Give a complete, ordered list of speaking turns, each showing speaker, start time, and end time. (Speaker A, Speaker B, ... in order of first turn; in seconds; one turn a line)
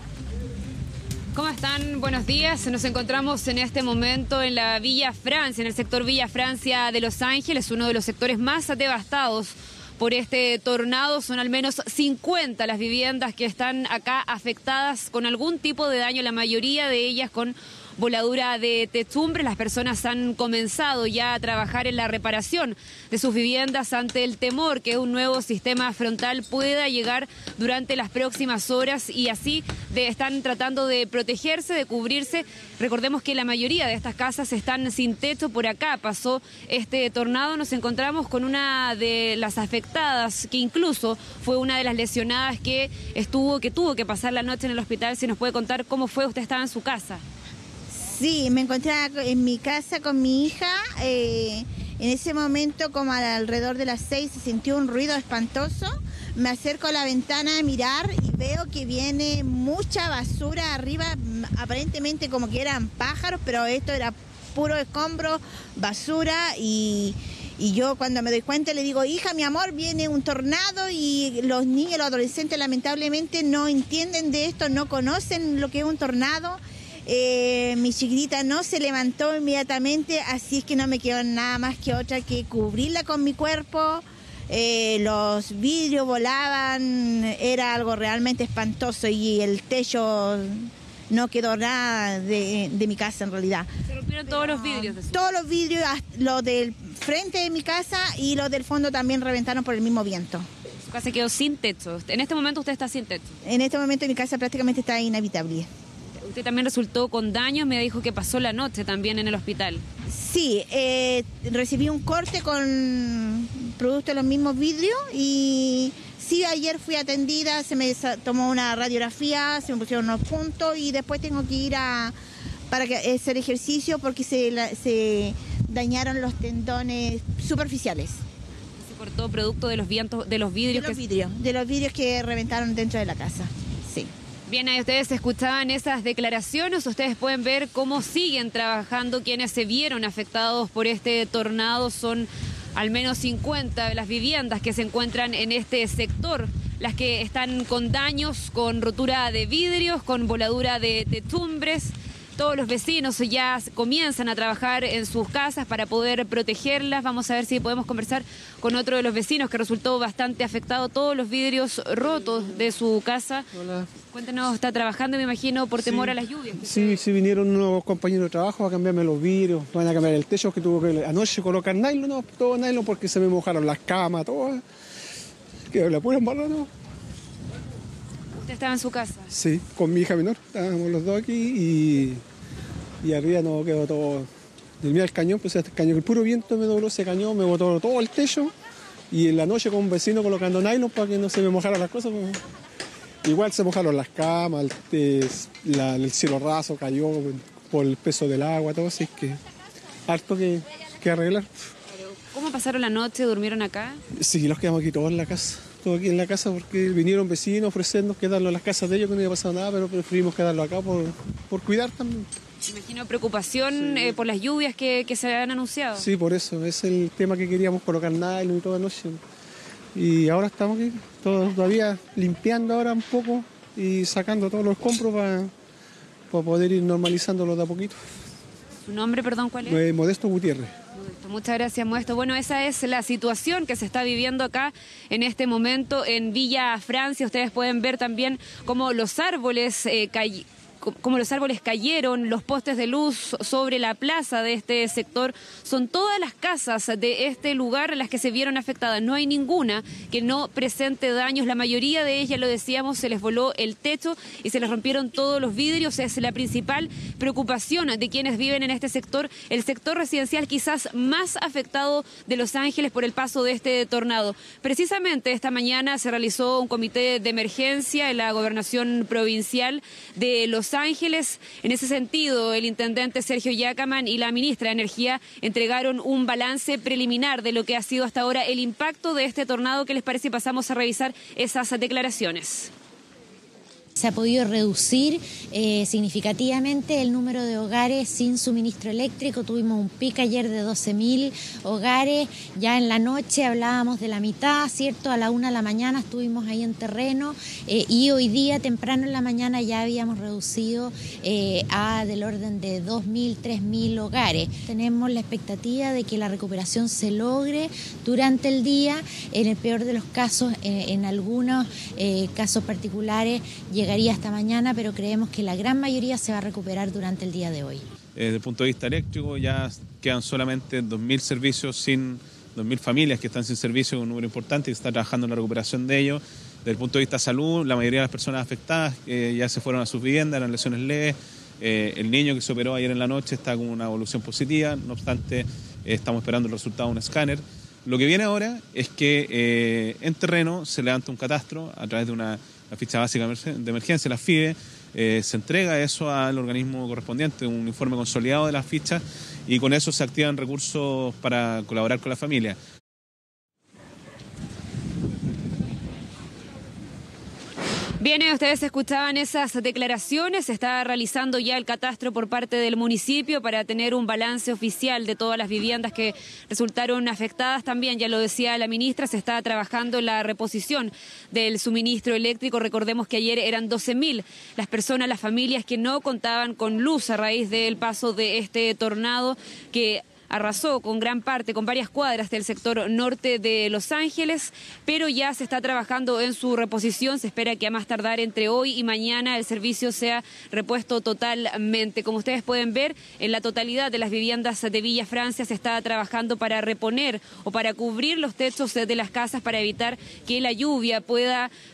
Speaker A: 1.3-47.2
Speaker B: 47.9-93.7
Speaker A: 93.9-95.3
Speaker B: 94.3-100.5
Speaker A: 100.8-103.3
Speaker B: 103.4-105.7
Speaker A: 106.2-109.8
Speaker B: 110.1-122.1
Speaker B: 122.7-128.2
Speaker A: 128.8-131.0
Speaker B: 130.7-134.1
Speaker A: 134.5-163.4
Speaker C: 163.5-163.9
Speaker A: 164.1-167.0
Speaker C: 165.8-174.6
Speaker C: 175.7-176.7
Speaker A: 178.3-179.3
Speaker C: 179.3-182.2
Speaker C: 183.0-184.3
Speaker C: 184.8-188.5
Speaker C: 189.1-192.4
Speaker C: 193.2-199.4
Speaker C: 200.1-201.6
Speaker A: 202.0-204.0
Speaker C: 204.2-212.3
Speaker A: 212.7-216.1
Speaker C: 213.7-214.1
Speaker C: 215.9-219.2
Speaker C: 219.9-225.5
Speaker C: 226.3-228.0
Speaker A: 228.8-229.8
Speaker C: 229.7-230.7
Speaker A: 230.9-282.7
Speaker D: 283.9-317.8
Speaker E: 318.1-352.6
Speaker A: 358.0-401.5